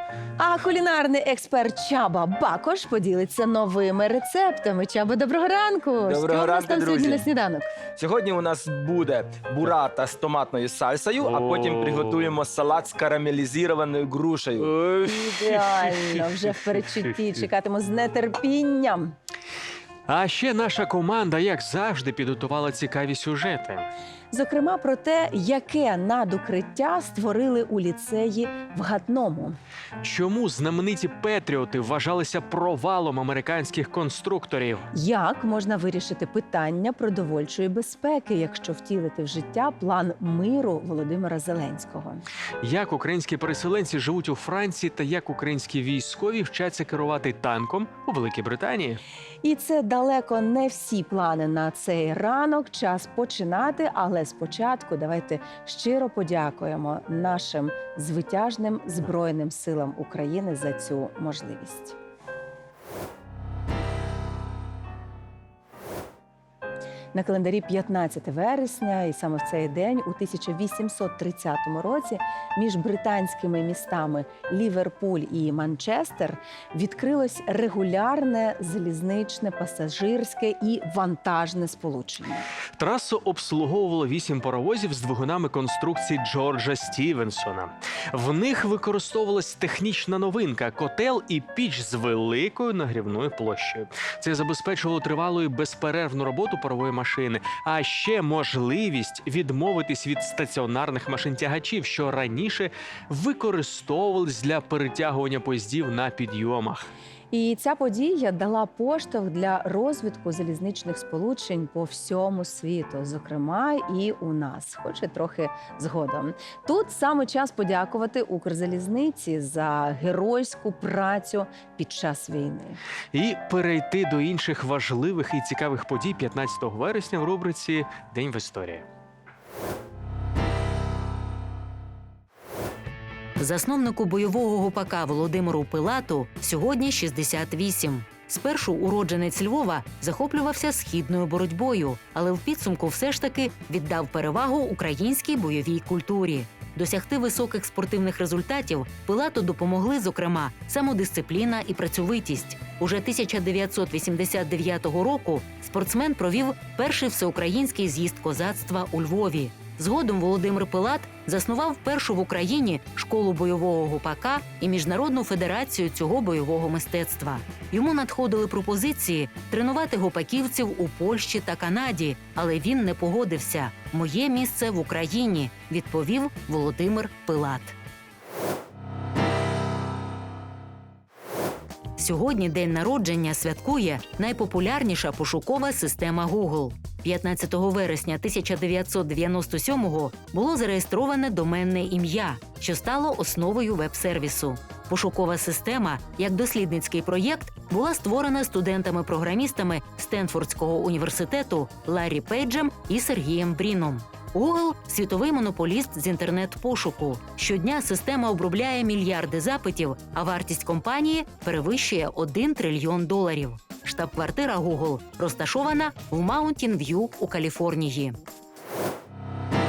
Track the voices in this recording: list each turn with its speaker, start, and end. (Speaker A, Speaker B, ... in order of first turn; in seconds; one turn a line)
Speaker A: 0.4-7.7
Speaker B: 6.0-7.3
Speaker B: 7.9-14.9
Speaker C: 11.2-12.3
Speaker A: 15.0-19.1
Speaker C: 20.1-23.9
Speaker A: 24.3-29.6
Speaker C: 30.0-34.9
Speaker A: 34.9-42.2
Speaker C: 42.6-49.0
Speaker A: 49.4-62.0
Speaker A: 67.2-82.5
Speaker C: 82.8-106.9
Speaker A: 107.3-122.8
Speaker C: 123.1-128.8
Speaker D: 133.4-177.8
Speaker D: 182.0-218.2